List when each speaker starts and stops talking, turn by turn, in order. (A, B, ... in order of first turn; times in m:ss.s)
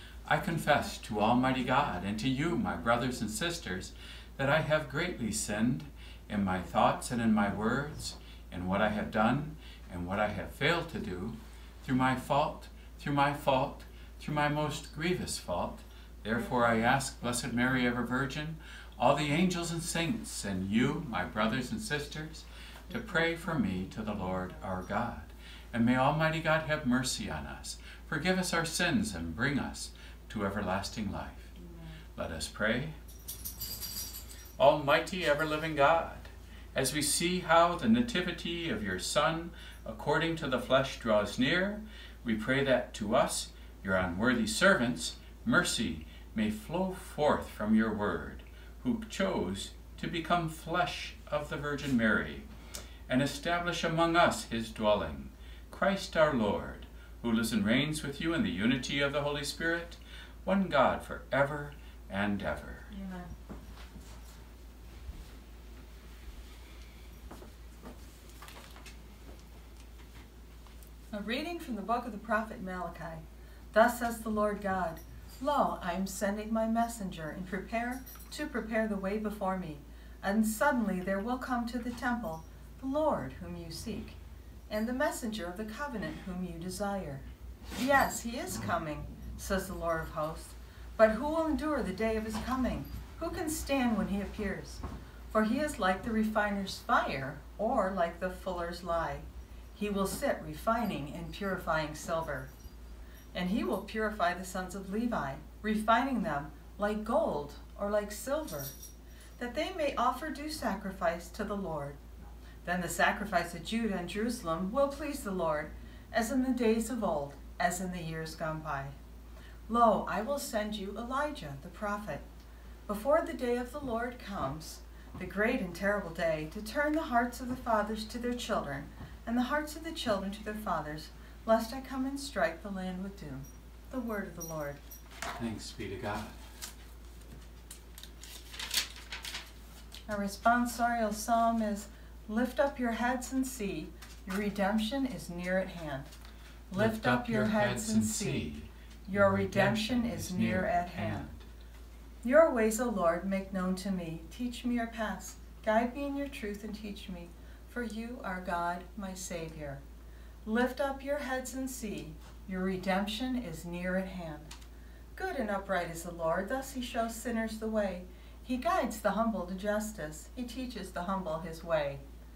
0:00.2-0:31.5 A
0:31.6-0:31.9 B
0:32.2-0:33.0 A
0:34.6-0:52.5 A
0:53.1-1:02.9 A
1:02.9-1:03.3 B
1:11.1-1:24.2 B
1:24.7-1:27.2 B
1:27.8-1:42.5 B
1:43.3-1:48.7 B
1:49.4-1:52.0 B
1:52.6-1:59.0 B
1:59.7-2:02.2 B
2:02.9-2:14.8 B
2:15.4-2:16.4 A
2:20.1-2:26.1 B
2:26.7-2:28.5 B
2:26.7-2:31.4 A
2:29.1-2:31.3 B
2:32.2-2:39.8 B
2:40.4-2:44.5 B
2:45.2-2:52.0 B